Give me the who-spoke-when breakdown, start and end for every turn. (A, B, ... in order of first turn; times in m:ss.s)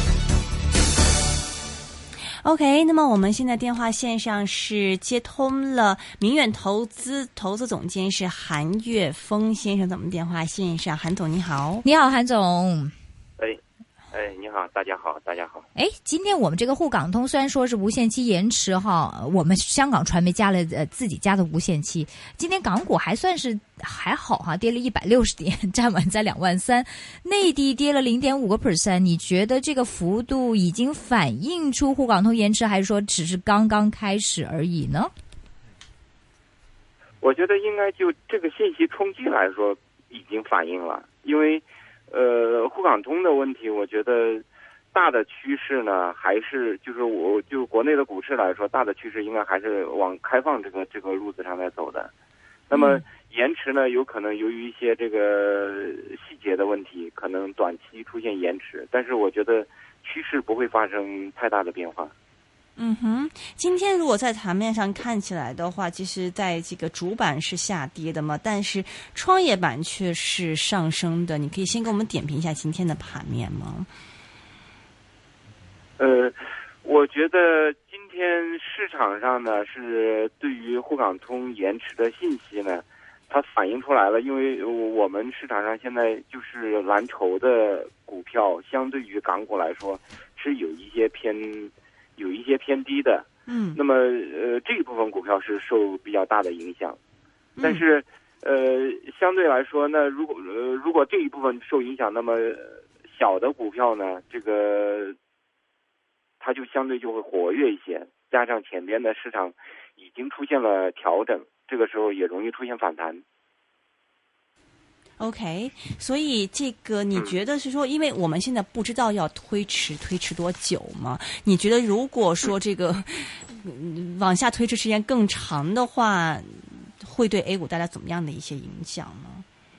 0:02.4-0:11.8 A
0:11.8-0:12.9 B
0:14.1-0:15.7 C
0:15.7-0:35.1 B
0:37.2-0:52.1 C
0:52.7-1:02.1 C
0:52.7-0:53.0 A
1:02.8-1:13.9 A
1:16.0-1:37.0 C
1:33.5-1:33.8 A
1:37.6-1:37.8 A
1:37.6-1:45.2 C
1:46.4-1:53.2 C
1:55.2-2:09.4 A